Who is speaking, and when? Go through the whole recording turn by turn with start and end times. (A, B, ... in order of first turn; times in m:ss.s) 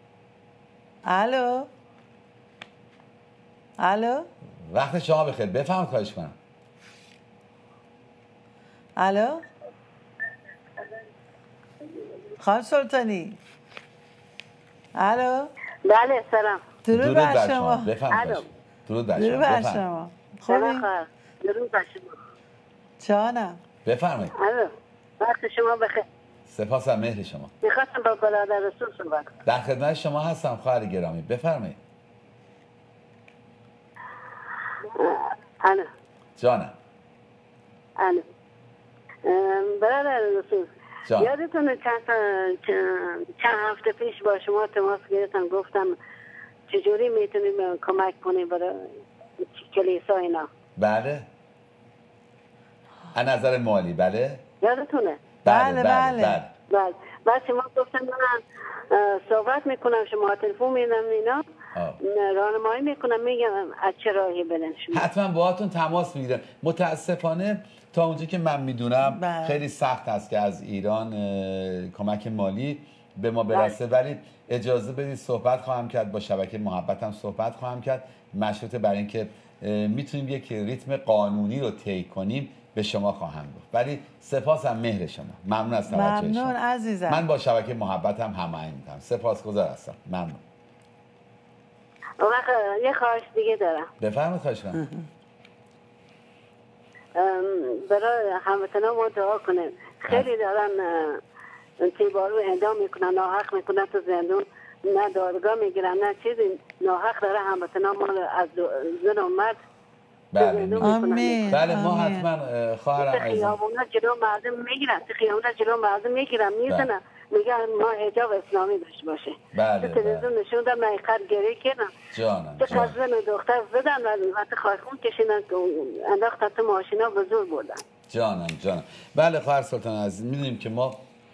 0:01.1-0:01.7 A
0:03.8-0:04.3 A
0:04.7-0:06.4 B
0:09.0-0:09.5 A
0:12.4-0:13.4 A
0:15.0-0:15.5 A
0:15.9-0:16.7 C
0:16.9-0:17.9 A
0:16.9-0:19.8 B
0:18.1-0:18.5 C
0:19.2-0:20.9 A
0:20.5-0:22.2 C
0:23.0-0:23.6 A
0:23.8-0:24.3 B
0:24.4-0:26.0 C
0:26.5-0:27.5 B
0:27.6-0:29.3 C
0:29.5-0:31.8 B
0:35.0-0:35.9 C
0:36.4-0:36.8 B
0:38.0-0:38.2 C
0:39.2-0:46.0 C
0:46.7-0:48.9 C
0:49.4-0:50.5 C
0:50.8-0:51.3 B
0:53.1-0:54.4 B
0:54.6-0:55.2 C
0:55.4-0:56.4 A
0:55.4-0:56.5 B
0:56.7-1:01.4 C
1:01.7-1:02.0 B
1:02.0-1:05.1 C
1:04.9-1:26.6 B
1:09.0-1:09.6 A
1:13.5-1:13.8 C
1:25.9-1:27.2 A
1:27.1-1:30.4 B
1:32.2-1:33.9 C
1:34.0-1:34.8 B
1:34.8-1:35.0 A
1:37.2-1:41.2 C
1:41.8-1:49.6 C
1:50.3-1:53.6 B
1:50.4-1:51.6 C
1:50.8-1:52.3 A
1:53.0-2:01.9 C
1:59.5-2:00.3 B
2:02.1-2:03.0 B
2:02.6-2:07.8 C
2:08.1-2:11.0 B